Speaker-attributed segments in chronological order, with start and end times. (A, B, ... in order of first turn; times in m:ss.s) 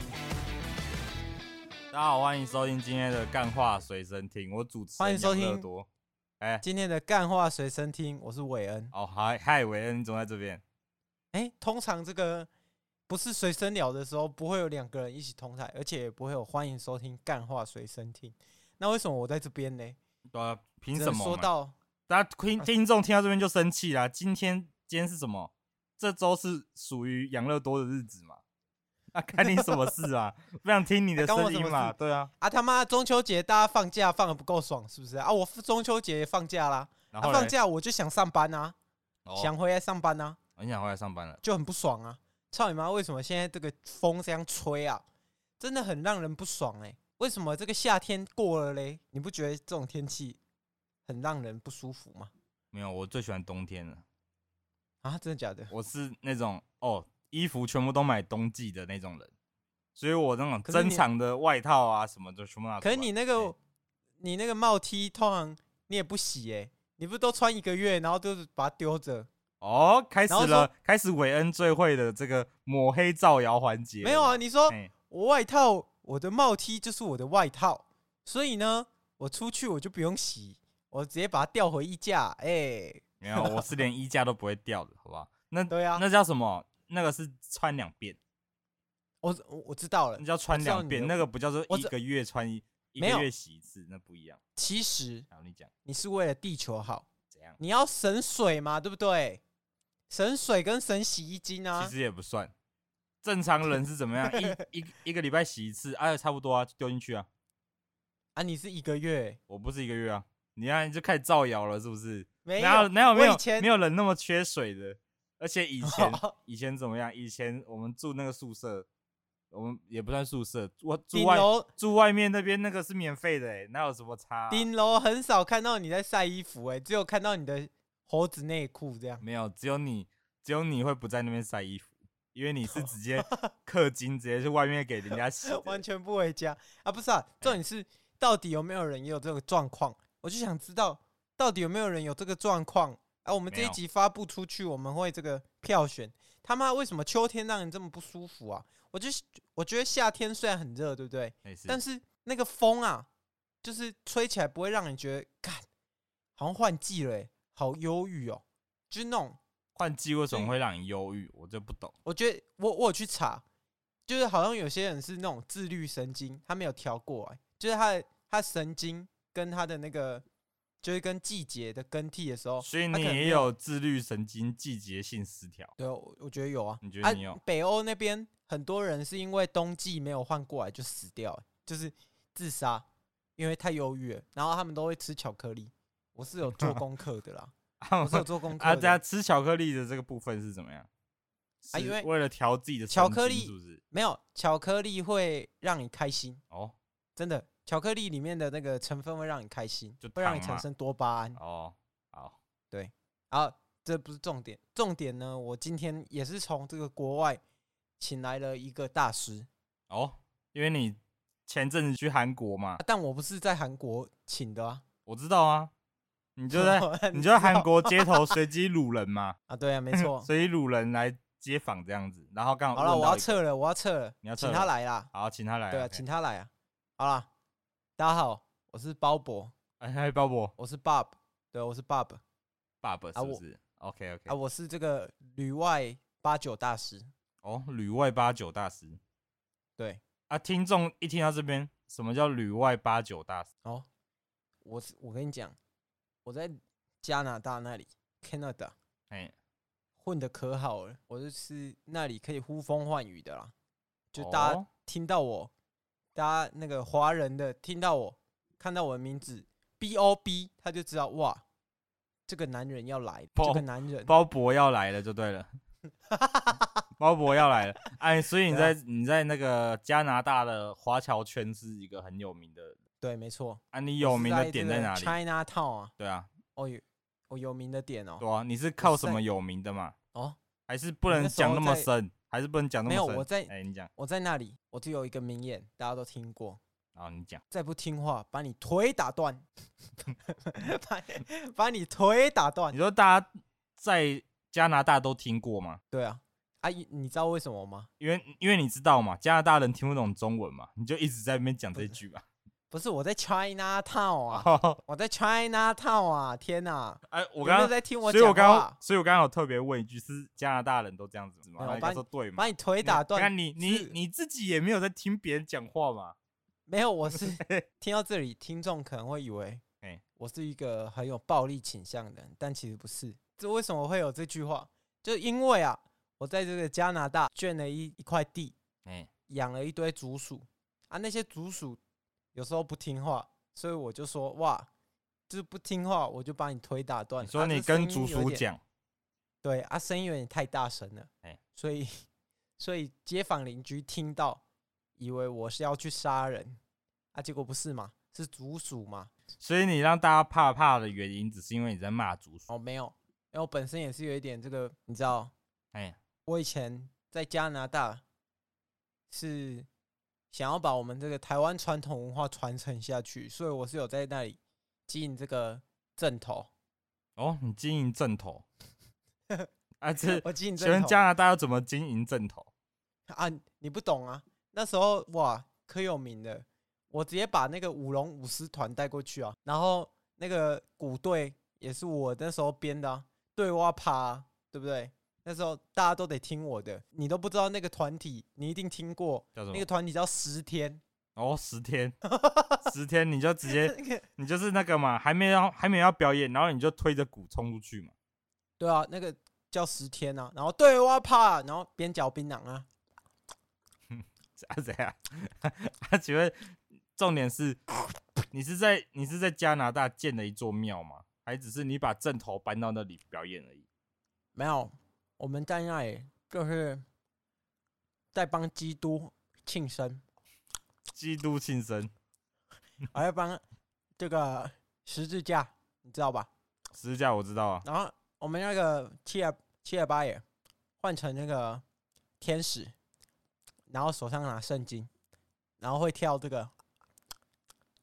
0:01.9-0:05.9 A
0:05.0-0:05.7 B
0:06.6-0:08.9 B
0:08.9-0:10.6 A
0:11.3-0:12.5 B
0:13.1-0:20.0 B
0:20.3-0:21.5 A
0:20.9-0:21.7 B
0:22.1-0:28.4 A
0:29.1-0:32.3 A
0:31.2-0:38.7 B
0:37.1-0:37.5 A
0:39.2-0:39.5 A
0:39.4-0:40.4 B
0:40.6-0:41.4 A
0:41.4-0:45.0 B
0:45.6-0:50.4 B
0:51.0-0:52.3 B
0:52.7-0:54.0 A
0:55.0-0:55.7 B
0:55.7-0:59.3 A
0:59.9-1:03.5 A
1:00.6-1:01.0 B
1:02.8-1:03.6 B
1:04.2-1:09.3 B
1:09.6-1:14.9 A
1:10.3-1:10.7 B
1:14.0-1:23.7 B
1:23.2-1:28.2 A
1:25.7-1:26.0 B
1:29.2-1:31.9 B
1:30.2-1:34.4 A
1:33.0-1:33.3 B
1:34.6-1:35.3 B
1:35.3-1:35.7 A
1:35.8-1:37.1 B
1:37.6-1:39.4 B
1:40.1-1:41.9 B
1:41.8-1:42.5 A
1:43.2-1:47.3 A
1:44.3-1:44.6 B
1:48.3-1:49.4 B
1:49.5-1:58.8 A
1:52.4-1:53.7 B
1:55.8-1:56.3 B
1:59.5-2:04.7 A
2:01.1-2:01.7 B
2:04.5-2:09.2 B
2:09.2-2:15.8 A
2:13.2-2:13.5 B
2:15.4-2:33.1 B
2:23.5-2:23.8 A
2:31.4-2:31.8 A
2:33.6-2:35.6 B
2:36.4-2:39.4 B
2:39.8-2:41.9 A
2:42.0-2:43.4 B
2:44.1-2:50.2 B
2:50.8-2:53.5 B
2:52.6-2:55.7 A
2:55.8-3:02.8 B
2:56.8-2:57.4 A
3:03.4-3:09.0 B
3:07.8-3:10.9 A
3:11.6-3:13.8 A
3:11.7-3:12.1 B
3:12.9-3:16.4 B
3:16.5-3:16.8 A
3:17.2-3:21.4 B
3:20.0-3:20.7 A
3:21.4-3:22.4 A
3:22.7-3:27.4 B
3:28.0-3:29.5 B
3:29.9-3:32.8 A
3:32.8-3:34.8 B
3:35.1-3:35.7 A
3:36.4-3:39.4 A
3:36.5-3:38.4 B
3:39.5-3:40.3 B
3:39.9-3:43.4 A
3:42.7-3:45.1 B
3:44.2-3:46.0 A
3:45.7-3:47.3 B
3:48.0-3:49.5 B
3:49.8-3:50.5 A
3:50.6-3:52.2 B
3:52.8-3:54.3 A
3:53.2-3:53.4 B
3:54.3-3:57.1 B
3:57.4-3:59.0 A
4:00.3-4:03.5 A
4:04.6-4:05.6 B
4:06.2-4:08.7 B
4:10.0-4:13.5 B
4:14.1-4:15.5 B
4:14.2-4:14.7 A
4:16.2-4:21.4 B
4:22.3-4:24.1 B
4:23.4-4:25.5 A
4:26.1-4:26.8 B
4:27.0-4:32.8 A
4:28.5-4:28.7 B
4:33.0-4:35.9 B
4:33.7-4:35.2 A
4:36.0-4:36.3 A
4:36.6-4:38.2 B
4:38.2-4:40.0 A
4:38.8-4:39.2 B
4:40.7-4:43.9 A
4:41.1-4:41.9 B
4:42.9-4:46.6 B
4:47.0-4:47.4 A
4:47.5-4:49.5 B
4:50.1-4:52.8 B
4:52.7-4:55.8 A
4:55.9-4:57.9 B
4:58.0-5:02.2 A
5:02.7-5:08.8 B
5:04.3-5:04.8 A
5:07.1-5:16.2 A
5:11.6-5:13.9 B
5:16.7-5:19.6 B
5:17.1-5:17.6 A
5:20.2-5:28.6 B
5:28.8-5:29.1 A
5:29.3-5:31.8 B
5:32.4-5:34.7 B
5:35.3-5:38.4 B
5:37.2-5:38.6 A
5:39.4-5:42.0 B
5:42.6-5:44.4 B
5:45.0-5:46.6 B
5:47.1-5:49.1 B
5:49.4-5:52.5 A
5:52.5-5:55.3 B
5:56.3-5:58.0 B
5:59.1-5:59.7 B
6:00.3-6:06.5 B
6:07.2-6:08.4 A
6:09.8-6:12.5 A
6:10.1-6:11.0 B
6:13.1-6:30.8 B
6:29.4-6:29.7 A
6:31.2-6:32.0 A
6:32.1-6:32.6 B
6:32.6-6:37.9 A
6:33.6-6:34.0 B
6:38.6-6:42.7 B
6:43.9-6:47.6 A
6:48.3-6:53.6 A
6:54.4-6:56.8 B
6:58.1-7:00.0 B
7:00.9-7:01.9 A
7:02.9-7:03.4 B
7:04.0-7:06.3 B
7:06.7-7:07.7 A
7:07.6-7:10.2 B
7:10.8-7:11.6 B
7:12.2-7:12.7 B
7:13.7-7:14.9 B
7:15.6-7:16.5 B